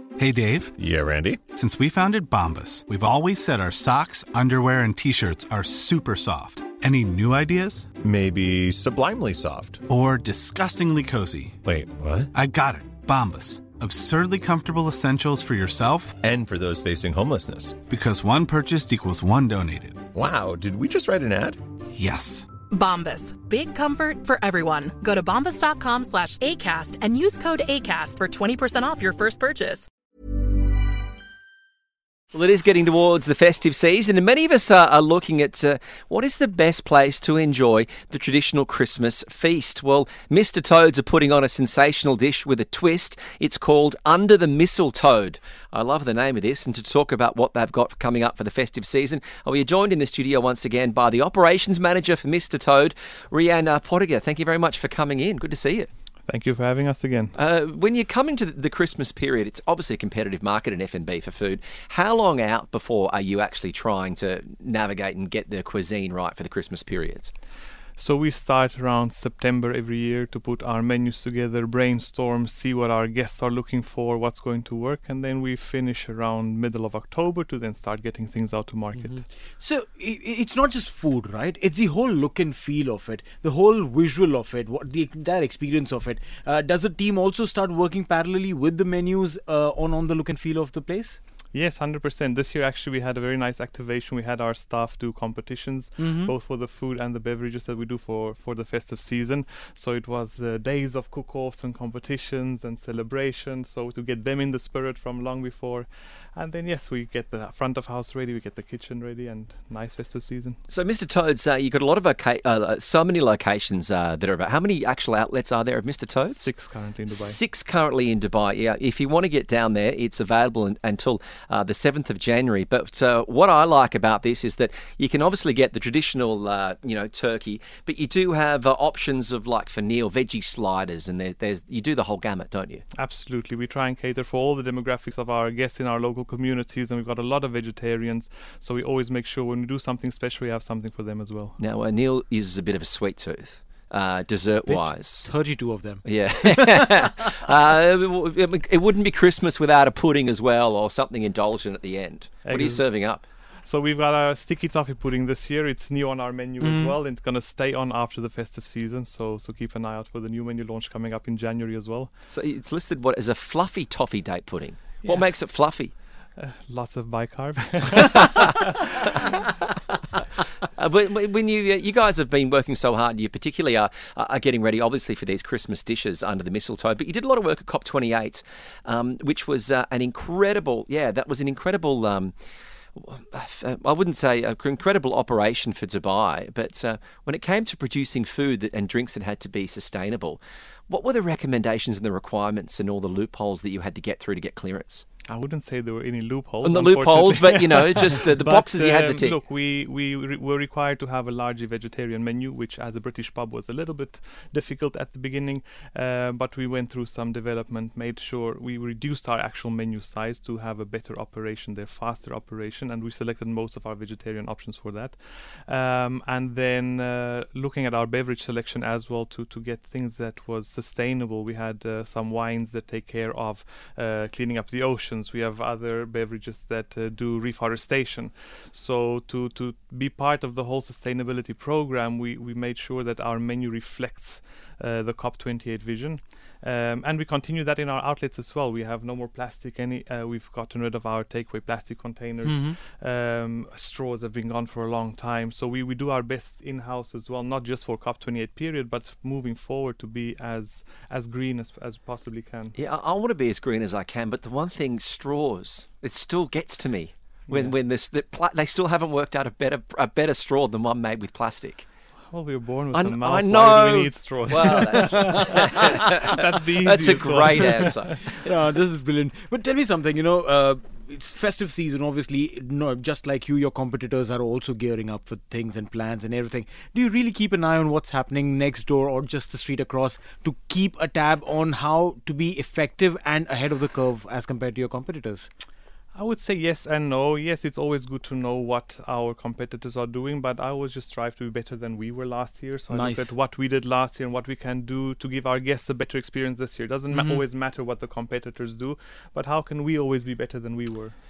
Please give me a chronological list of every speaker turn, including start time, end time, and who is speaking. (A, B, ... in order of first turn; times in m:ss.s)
0:00.2-0:00.8 A
0:00.8-0:01.4 B
0:01.5-0:07.9 A
0:08.0-0:09.8 B
0:09.9-0:11.5 A
0:11.6-0:12.2 B
0:12.3-0:16.2 A
0:16.2-0:17.8 B
0:17.8-0:20.1 A
0:20.1-0:21.6 B
0:22.0-0:22.5 A
0:22.7-0:29.9 C
0:32.3-0:55.9 D
0:56.3-0:57.3 E
0:57.4-1:07.3 D
1:08.0-1:19.3 E
1:19.6-1:31.2 F
1:31.5-1:50.6 E
1:36.0-1:36.3 F
1:50.7-2:12.8 D
1:56.2-1:57.4 E
2:12.9-2:21.6 E
2:21.6-2:25.3 D
2:24.7-2:27.1 F
2:26.0-2:33.2 D
2:32.4-2:32.8 E
2:33.6-2:42.1 E
2:36.6-2:37.0 F
2:42.3-2:45.9 D
2:46.4-2:48.8 E
2:48.2-2:48.5 D
2:50.8-3:02.3 D
3:03.0-3:15.0 D
3:15.3-4:12.7 E
3:16.6-3:19.4 D
4:02.4-4:02.8 F
4:12.8-4:21.9 D
4:17.5-4:17.8 E
4:22.3-4:25.6 E
4:22.9-4:28.3 D
4:26.2-4:28.2 E
4:28.3-4:45.5 F
4:46.1-5:01.1 E
4:52.9-4:53.3 F
4:57.1-4:57.4 F